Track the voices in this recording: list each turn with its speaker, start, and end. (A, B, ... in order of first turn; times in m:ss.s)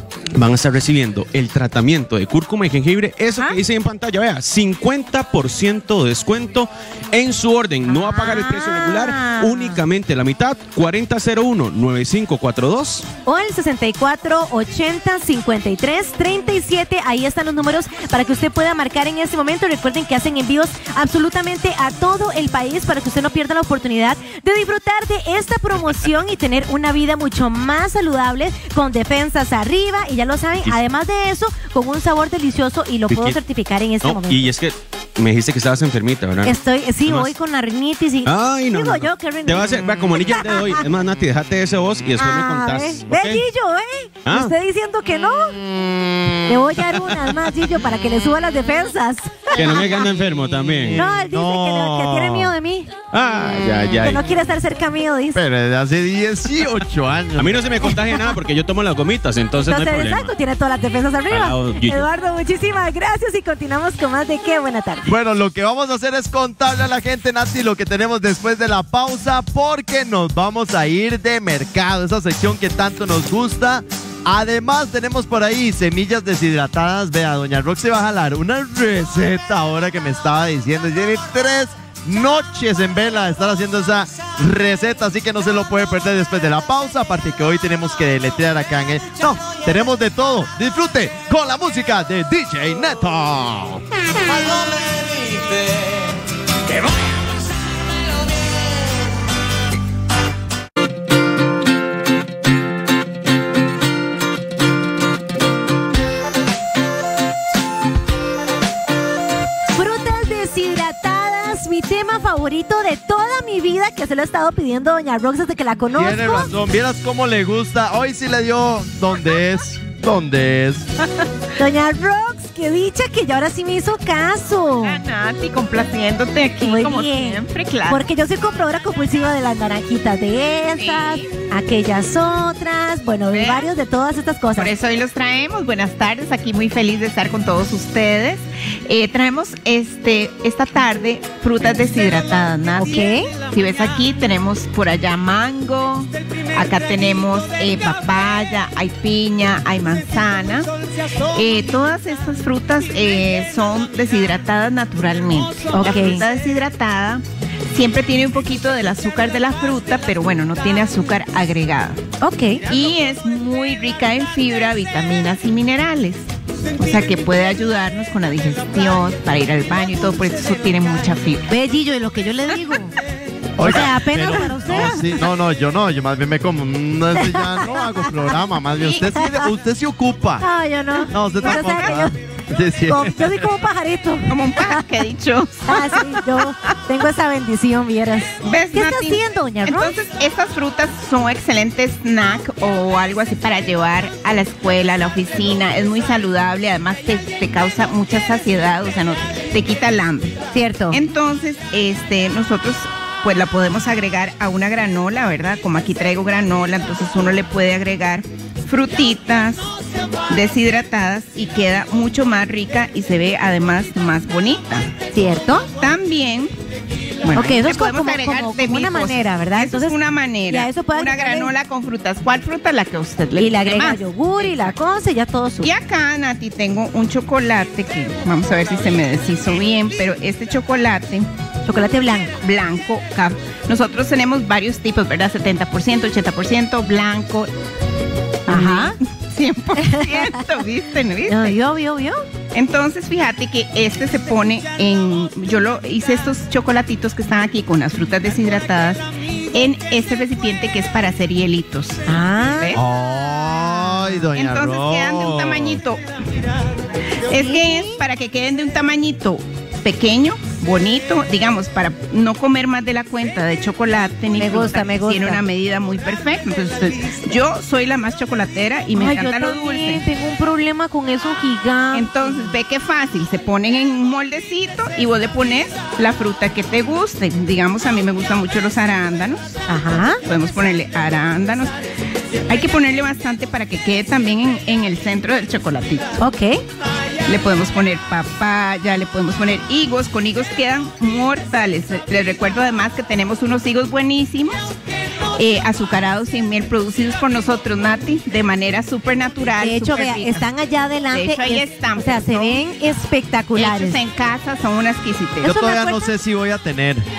0:00.3-0:13.0 A
0:07.9-0:09.8 B
0:13.2-0:34.5 B
0:33.1-0:33.4 A
0:34.0-0:37.3 A
0:36.4-0:40.8 B
0:38.2-0:43.4 A
0:42.2-0:45.6 B
0:44.2-0:44.5 A
0:45.7-0:46.4 C
0:46.5-0:50.0 B
0:49.5-0:51.0 A
0:50.4-0:52.5 C
0:50.9-0:52.9 B
0:53.1-0:54.2 A
0:54.0-0:55.4 B
0:55.3-0:57.9 C
0:57.4-1:00.3 A
0:59.6-1:05.1 B
1:01.3-1:02.1 A
1:05.1-1:33.8 C
1:49.7-1:56.5 B
1:55.9-2:00.9 C
2:01.6-2:05.0 B
2:04.8-2:08.0 D
2:06.6-2:14.7 B
2:10.7-2:11.4 D
2:13.3-2:13.7 D
2:14.5-2:30.7 D
2:22.8-2:23.3 B
2:31.3-2:42.0 D
2:35.7-2:36.2 B
2:42.2-2:42.6 B
2:42.7-2:46.2 D
2:46.8-2:51.5 D
2:51.5-2:52.9 B
2:53.6-2:55.0 B
2:53.6-3:00.4 C
2:57.2-2:57.7 B
3:00.4-3:02.1 B
3:01.1-3:03.4 C
3:01.4-3:02.0 D
3:02.9-3:04.8 B
3:04.3-3:06.2 D
3:05.7-3:09.9 B
3:08.4-3:20.4 D
3:20.5-3:21.0 B
3:20.9-3:29.7 D
3:30.3-3:35.0 D
3:35.1-3:35.7 B
3:35.8-3:36.5 D
3:37.2-3:44.0 D
3:37.3-3:41.5 B
3:43.4-3:45.7 B
3:45.6-3:51.3 D
3:51.7-3:52.3 B
3:52.4-3:57.5 D
3:58.5-4:01.6 D
3:58.5-3:59.0 B
3:59.8-4:00.4 B
4:01.3-4:02.2 B
4:02.5-4:12.8 D
4:12.1-4:12.8 B
4:12.7-4:15.8 C
4:14.3-4:16.0 D
4:17.3-4:30.0 D
4:17.3-4:18.0 B
4:24.4-4:25.4 B
4:28.9-4:32.1 B
4:31.9-4:39.6 D
4:39.7-4:40.2 B
4:40.2-4:41.7 D
4:42.5-4:46.2 D
4:46.2-4:46.6 B
4:47.3-4:54.7 D
4:55.4-5:00.5 D
4:59.6-5:04.0 B
5:01.1-5:02.6 D
5:03.5-5:05.5 D
5:05.4-5:06.1 B
5:05.4-5:07.0 C